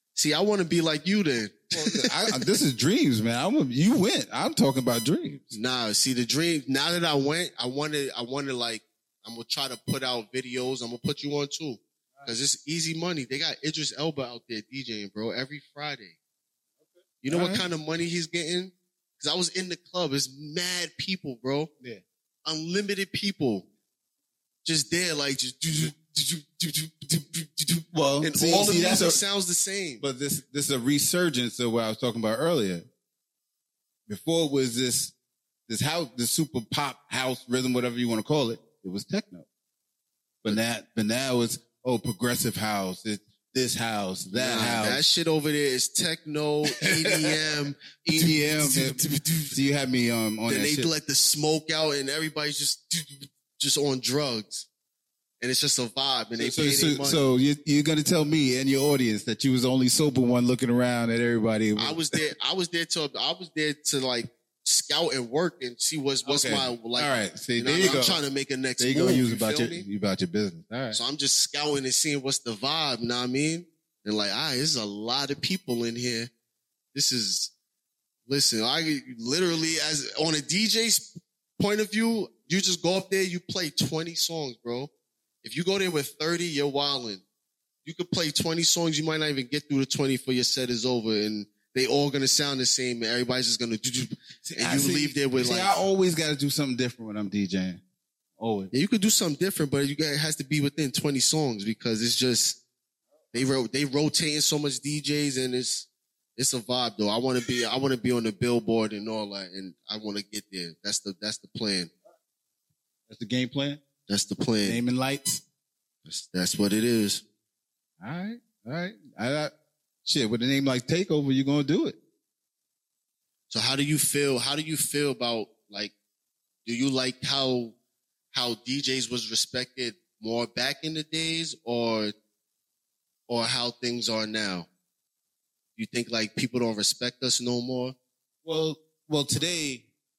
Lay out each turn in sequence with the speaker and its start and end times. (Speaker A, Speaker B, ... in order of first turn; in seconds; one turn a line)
Speaker A: 0.1-2.3
Speaker B: 1.7-5.5
Speaker A: 5.5-16.2
Speaker B: 16.8-17.7
Speaker A: 17.2-21.7
Speaker A: 22.5-23.7
Speaker A: 24.6-30.0
Speaker B: 27.9-29.2
Speaker B: 30.0-32.9
Speaker B: 34.1-35.1
Speaker B: 35.7-39.5
Speaker B: 40.4-45.0
Speaker A: 44.3-49.6
Speaker B: 46.8-47.3
Speaker B: 48.0-49.0
Speaker B: 49.5-50.9
Speaker A: 50.5-54.7
Speaker A: 55.4-57.2
Speaker B: 56.4-62.2
Speaker A: 61.8-69.8
Speaker B: 66.2-68.2
Speaker B: 68.8-71.0
Speaker A: 70.9-76.3
Speaker A: 76.9-77.5
Speaker A: 78.3-84.9
Speaker A: 85.4-87.2
Speaker A: 87.8-95.8
Speaker B: 94.5-97.8
Speaker B: 98.4-98.7
Speaker A: 98.7-102.6
Speaker A: 103.3-111.9
Speaker B: 113.1-113.8
Speaker A: 114.1-114.8
Speaker B: 114.6-115.4
Speaker A: 116.1-117.2
Speaker B: 118.0-119.5
Speaker B: 120.0-122.0
Speaker A: 123.5-125.9
Speaker A: 126.7-127.8
Speaker A: 128.3-132.1
Speaker A: 133.3-134.7
Speaker A: 135.8-137.9
Speaker B: 138.4-139.9